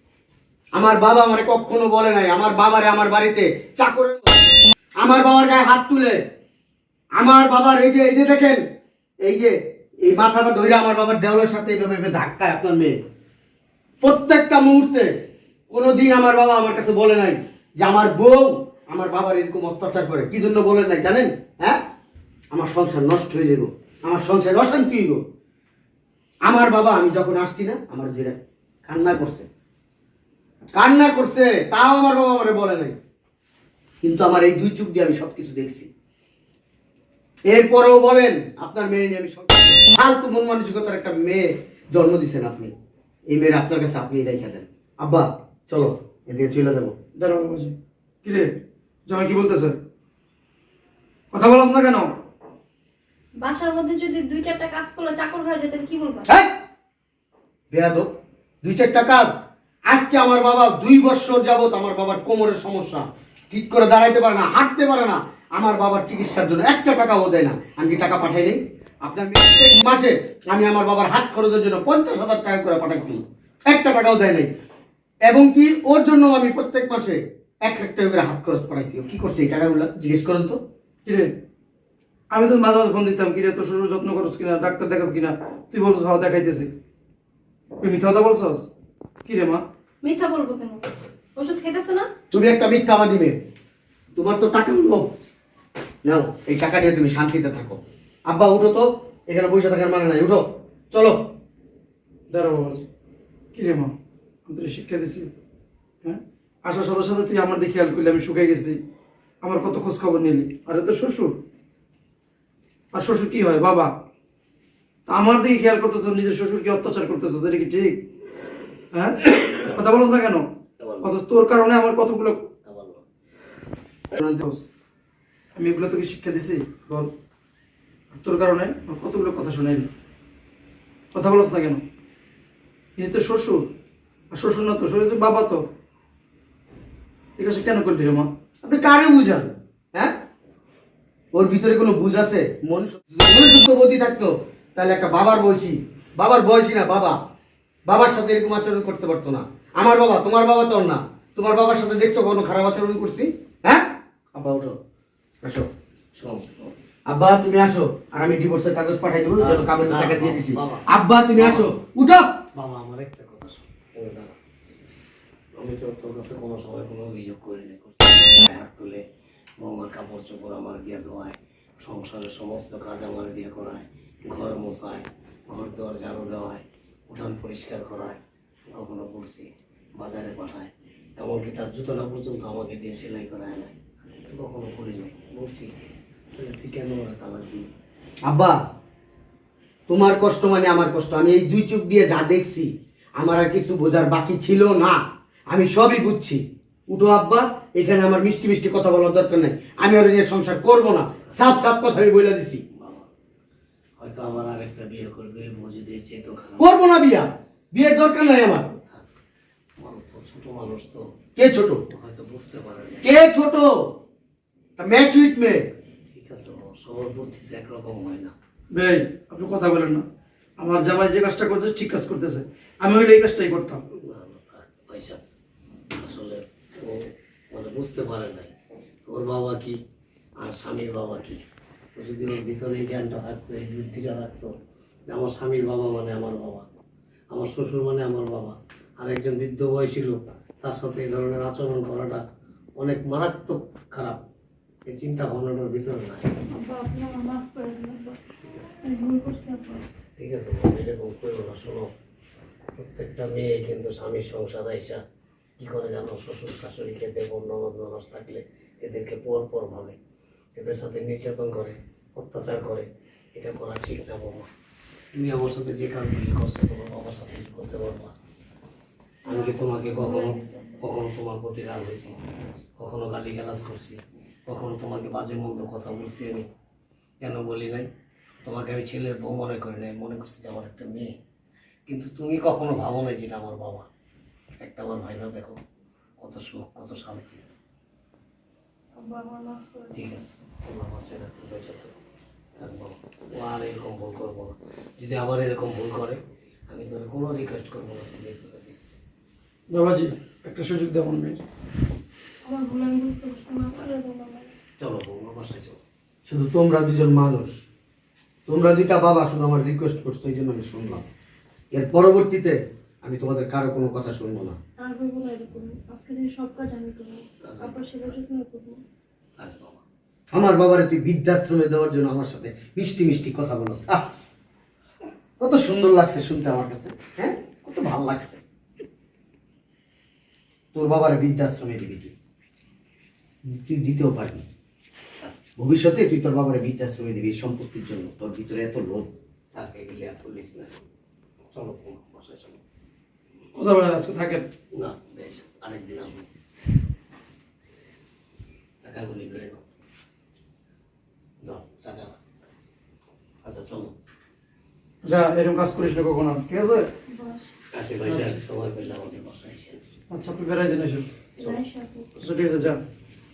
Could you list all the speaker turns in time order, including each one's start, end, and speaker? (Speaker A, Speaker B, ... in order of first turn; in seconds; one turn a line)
Speaker A: 0.7-4.4
Speaker A: 5.0-6.2
Speaker A: 7.2-8.6
Speaker A: 9.2-13.0
Speaker A: 14.0-15.1
Speaker A: 15.7-21.8
Speaker A: 22.5-25.2
Speaker A: 26.4-29.5
Speaker A: 30.7-33.0
Speaker A: 34.0-35.9
Speaker A: 37.5-42.7
Speaker A: 43.3-46.9
Speaker B: 47.1-49.8
Speaker B: 51.3-52.1
Speaker C: 53.4-56.3
Speaker A: 57.7-58.1
Speaker A: 58.6-59.3
Speaker A: 59.9-74.5
Speaker A: 75.2-80.6
Speaker B: 81.0-81.3
Speaker B: 82.3-86.7
Speaker B: 87.8-88.7
Speaker B: 89.2-89.6
Speaker C: 90.0-92.1
Speaker A: 92.3-93.4
Speaker A: 94.1-95.1
Speaker A: 96.0-101.2
Speaker B: 102.3-102.8
Speaker B: 103.5-103.9
Speaker B: 104.5-105.3
Speaker B: 106.0-108.8
Speaker B: 109.4-111.4
Speaker B: 112.9-113.9
Speaker B: 115.1-118.0
Speaker B: 118.9-120.5
Speaker D: 120.8-121.1
Speaker B: 121.0-122.5
Speaker D: 122.7-123.0
Speaker B: 124.2-124.6
Speaker B: 125.5-127.1
Speaker B: 128.1-129.9
Speaker B: 131.1-131.8
Speaker B: 133.0-133.7
Speaker B: 134.3-135.6
Speaker B: 137.4-138.3
Speaker A: 138.6-140.1
Speaker A: 141.3-147.2
Speaker A: 147.8-154.8
Speaker A: 155.4-155.7
Speaker D: 156.1-156.7
Speaker A: 157.1-162.4
Speaker D: 159.4-161.7
Speaker D: 162.5-164.3
Speaker D: 165.6-169.0
Speaker D: 169.6-178.2
Speaker D: 178.7-183.7
Speaker D: 184.3-185.7
Speaker D: 186.3-187.7
Speaker A: 188.2-188.6
Speaker A: 189.9-202.6
Speaker D: 202.7-203.1
Speaker D: 204.0-206.7
Speaker A: 206.6-208.7
Speaker D: 208.7-209.1
Speaker D: 209.8-211.1
Speaker A: 211.3-211.8
Speaker D: 211.9-213.1
Speaker A: 213.0-213.8
Speaker A: 214.8-215.7
Speaker D: 216.1-218.3
Speaker B: 218.7-220.0
Speaker B: 220.6-223.8
Speaker D: 224.0-225.2
Speaker D: 226.0-228.5
Speaker D: 229.1-229.8
Speaker D: 230.4-231.4
Speaker D: 231.9-234.5
Speaker D: 235.1-236.7
Speaker D: 237.3-242.2
Speaker D: 242.8-244.2
Speaker D: 244.8-246.4
Speaker C: 246.5-249.8
Speaker D: 250.2-251.9
Speaker D: 252.8-255.0
Speaker D: 255.6-260.0
Speaker D: 260.6-264.5
Speaker D: 265.1-268.1
Speaker C: 269.2-270.9
Speaker D: 269.3-272.1
Speaker D: 272.8-276.5
Speaker D: 277.2-277.9
Speaker D: 278.4-281.1
Speaker D: 281.9-283.9
Speaker D: 284.6-285.6
Speaker D: 286.2-287.4
Speaker C: 288.9-290.2
Speaker D: 289.9-292.0
Speaker D: 292.6-299.0
Speaker B: 299.7-301.4
Speaker C: 302.4-304.5
Speaker D: 304.8-305.8
Speaker A: 306.2-307.5
Speaker A: 308.5-311.0
Speaker A: 311.7-314.6
Speaker C: 314.8-318.8
Speaker D: 317.4-318.1
Speaker D: 319.4-319.8
Speaker A: 320.3-324.1
Speaker A: 325.4-328.4
Speaker A: 330.7-332.1
Speaker A: 333.4-334.4
Speaker A: 335.2-339.1
Speaker D: 339.5-340.7
Speaker D: 341.5-342.6
Speaker B: 343.5-344.4
Speaker D: 344.7-346.3
Speaker D: 348.8-349.6
Speaker D: 351.4-352.2
Speaker D: 353.4-353.9
Speaker B: 355.0-356.9
Speaker C: 357.1-357.5
Speaker D: 357.7-359.8
Speaker B: 358.1-358.3
Speaker B: 360.1-361.1
Speaker C: 361.4-362.1
Speaker B: 362.2-362.8